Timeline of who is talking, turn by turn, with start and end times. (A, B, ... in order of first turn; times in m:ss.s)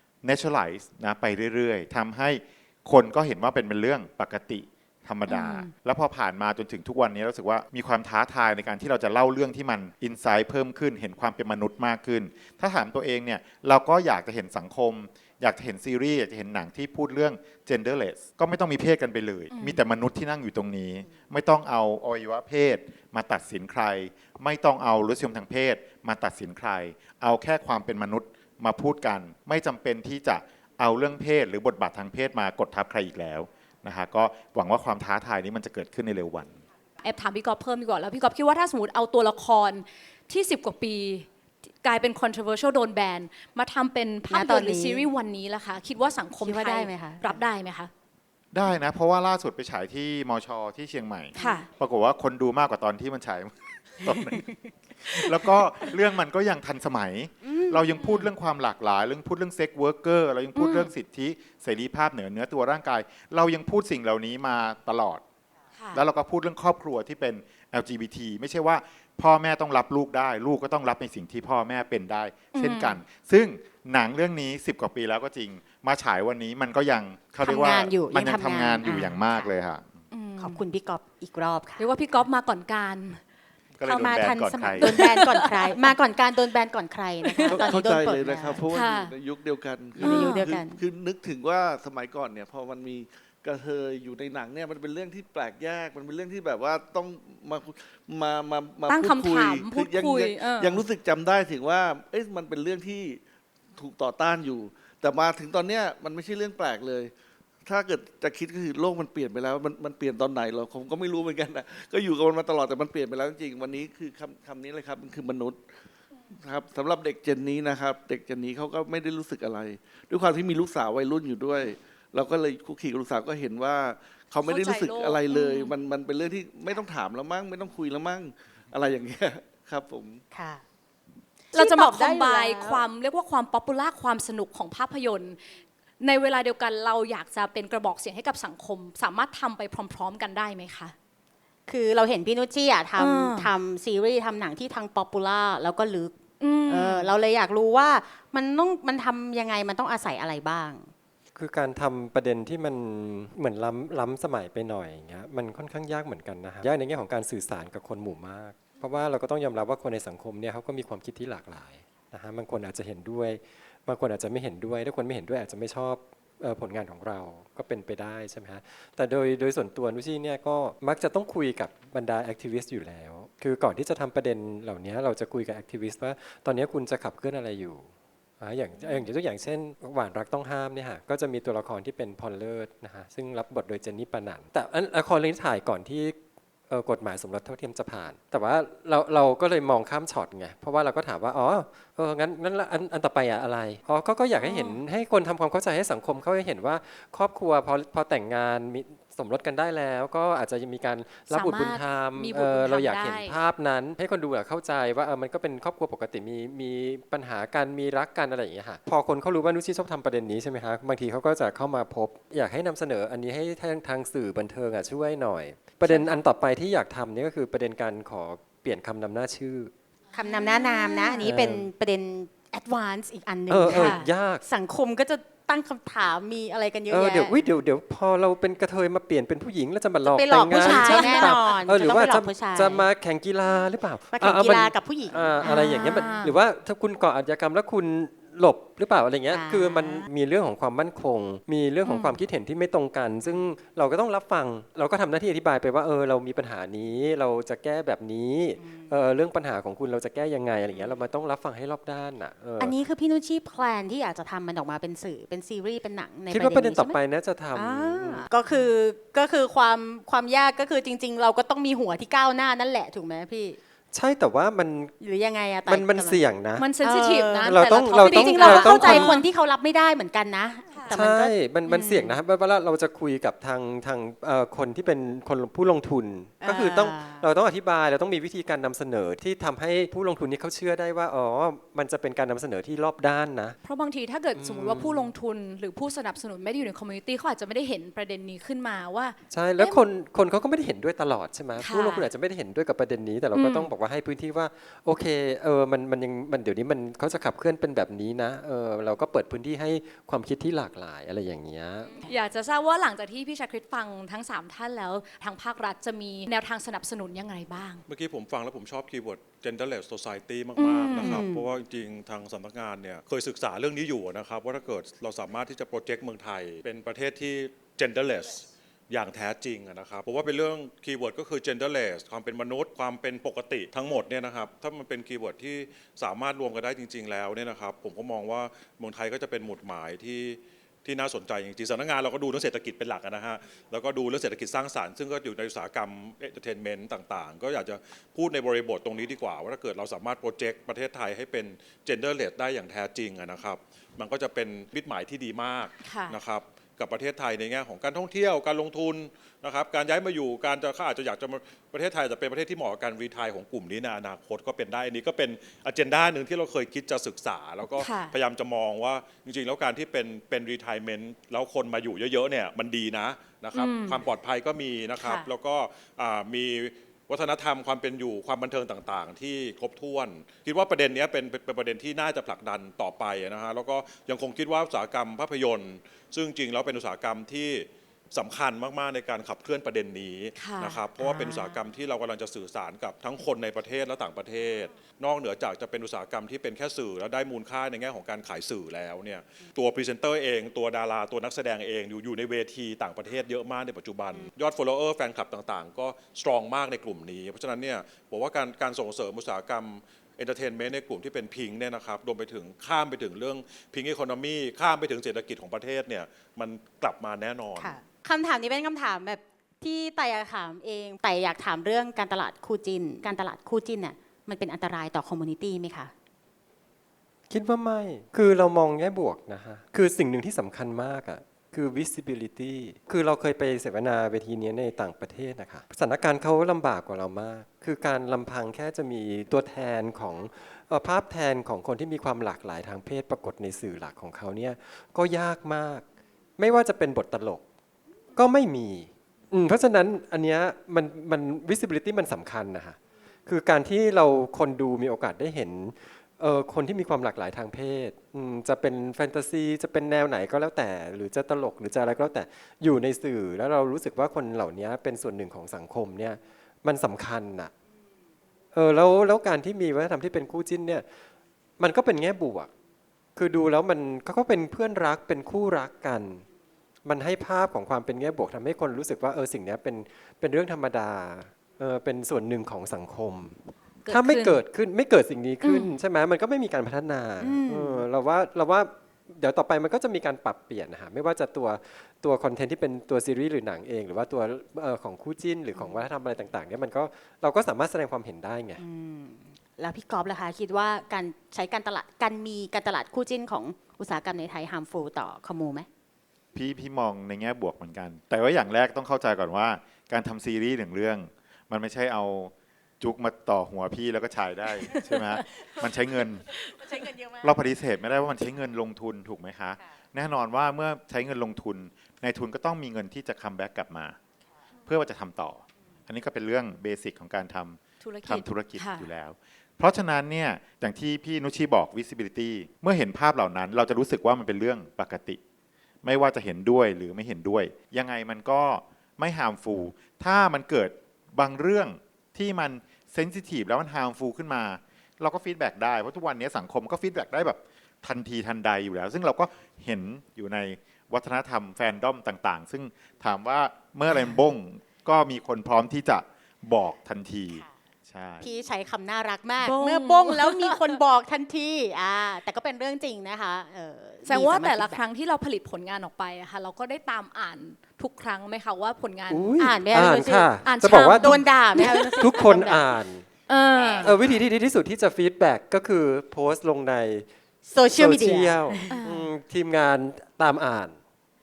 0:00.2-0:36.6 A
0:05.3-0:05.7 B
0:19.5-0:19.8 B
0:37.0-0:41.3 B
0:41.8-0:47.9 B
0:44.3-0:45.0 C
0:46.4-0:47.4 C
0:48.5-0:54.5 A
0:51.4-0:51.6 C
0:51.4-0:51.7 B
0:54.0-0:55.6 C
0:55.0-1:05.2 A
0:57.4-0:58.1 C
1:00.6-1:00.8 B
1:05.8-1:06.0 B
1:05.9-1:19.9 A
1:12.5-1:13.0 B
1:17.4-1:19.5 C
1:20.1-1:20.6 B
1:20.4-1:21.9 C
1:21.8-1:23.2 B
1:23.8-1:25.0 A
1:23.8-1:28.6 C
1:24.8-1:25.9 B
1:27.2-1:27.7 B
1:27.5-1:43.2 D
1:28.7-1:29.1 B
1:30.0-1:30.8 C
1:30.0-1:30.5 B
1:38.9-1:40.8 B
1:43.8-1:47.1 D
1:47.6-1:55.6 D
1:56.3-2:10.2 D
2:04.4-2:05.7 B
2:10.3-2:10.6 C
2:11.5-2:12.8 C
2:11.5-2:15.4 B
2:16.0-2:20.9 B
2:21.7-2:26.1 C
2:23.0-2:23.5 B
2:26.4-2:27.1 B
2:26.7-2:30.9 C
2:31.4-3:06.2 E
3:06.7-3:39.7 E
3:14.4-3:14.8 B
3:21.3-3:23.4 B
3:35.9-3:36.2 B
3:40.2-3:47.4 C
3:40.2-3:41.3 B
3:41.2-3:41.7 E
3:43.5-3:44.4 E
3:43.7-3:44.1 B
3:46.9-4:12.8 E
3:50.1-3:52.9 C
3:50.6-3:51.4 B
3:54.1-3:56.1 C
3:55.4-3:56.3 B
3:59.3-4:00.0 C
4:01.9-4:02.2 B
4:08.6-4:08.9 C
4:12.6-4:17.0 C
4:16.3-4:18.3 E
4:17.6-4:23.6 C
4:23.9-4:25.0 E
4:25.0-4:26.2 C
4:25.7-4:26.7 E
4:26.6-4:29.2 B
4:26.8-4:32.2 C
4:27.4-4:29.2 E
4:30.7-4:31.0 B
4:30.9-4:43.6 E
4:36.4-4:37.3 C
4:43.6-4:49.8 B
4:44.4-4:45.1 E
4:49.3-5:02.1 E
4:51.6-4:52.1 B
4:53.3-4:53.7 B
5:02.1-5:07.8 B
5:07.9-6:47.8 F
5:10.6-5:11.2 B
5:10.9-5:11.5 C
5:45.8-5:46.2 B
5:57.8-5:58.2 B
6:03.5-6:04.0 B
6:05.0-6:05.3 B
6:20.4-6:20.8 B
6:21.0-6:21.6 C
6:47.6-6:55.9 C
6:57.3-7:15.8 E
7:16.4-7:17.4 E
7:18.2-7:37.5 E
7:38.5-7:40.9 E
7:41.6-7:42.5 E
7:43.2-7:46.2 E
7:46.8-8:08.6 E
7:53.8-7:54.4 B
7:55.4-7:55.7 B
7:57.2-7:57.8 C
8:05.6-8:05.8 C
8:08.6-8:15.7 C
8:16.3-8:26.4 A
8:24.7-8:25.7 C
8:26.5-8:27.3 C
8:27.2-8:34.0 A
8:34.7-8:45.2 A
8:37.8-8:38.9 B
8:45.8-9:08.3 A
9:08.2-9:14.8 C
9:09.4-9:10.8 B
9:14.1-9:19.4 B
9:19.1-9:23.0 E
9:19.4-9:20.3 C
9:20.4-9:22.3 B
9:21.0-9:22.7 C
9:23.3-9:23.9 B
9:23.6-9:24.1 A
9:23.8-9:27.1 E
9:27.5-9:28.8 C
9:27.7-9:30.8 E
9:28.7-9:29.1 B